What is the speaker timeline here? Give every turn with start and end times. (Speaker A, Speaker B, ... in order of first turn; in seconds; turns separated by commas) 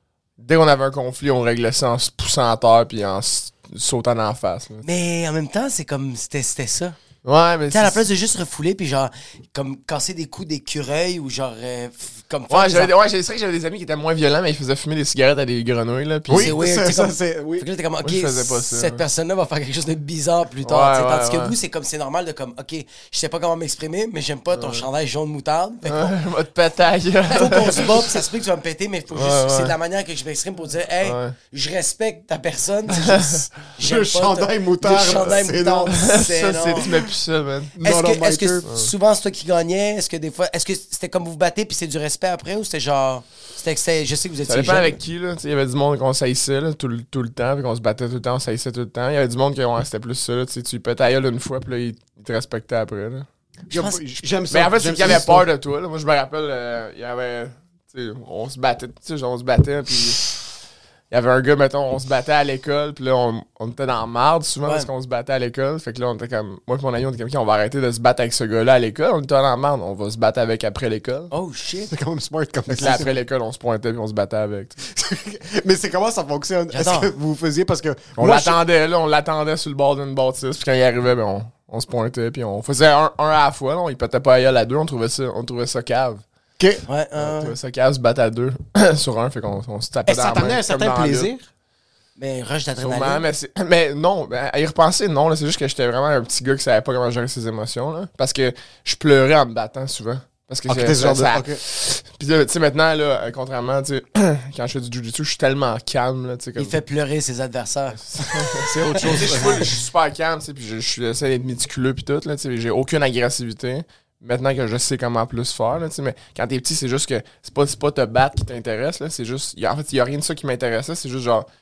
Speaker A: 0.4-4.8, Speaker B: 4.8-7.0, Speaker A: 7.2-8.0, Speaker B: 7.7-12.9, Speaker A: 12.5-16.5, Speaker C: 16.3-17.7, Speaker B: 16.3-26.1, Speaker A: 18.0-19.0, Speaker A: 20.6-21.5, Speaker A: 24.5-24.9, Speaker A: 25.9-28.1, Speaker B: 27.3-36.9, Speaker A: 29.1-29.8, Speaker A: 31.0-31.4, Speaker A: 33.1-33.4, Speaker C: 33.8-36.1, Speaker A: 35.0-35.4, Speaker A: 35.9-37.8, Speaker C: 37.7-38.6, Speaker B: 37.8-44.9, Speaker A: 38.6-38.9, Speaker A: 44.5-53.3, Speaker B: 53.7-54.0, Speaker C: 53.7-55.5, Speaker A: 54.5-60.4, Speaker A: 61.1-71.3, Speaker B: 64.6-64.9, Speaker B: 71.3-71.9, Speaker C: 71.9-73.1, Speaker A: 72.7-74.8, Speaker C: 74.9-78.6, Speaker B: 76.7-77.1, Speaker A: 78.2-86.2, Speaker B: 86.9-87.5, Speaker A: 87.2-91.3, Speaker C: 90.1-91.5, Speaker B: 92.2-93.2, Speaker A: 92.8-106.8, Speaker C: 100.7-101.6, Speaker B: 106.5-109.1, Speaker A: 108.1-121.5, Speaker C: 108.6-109.7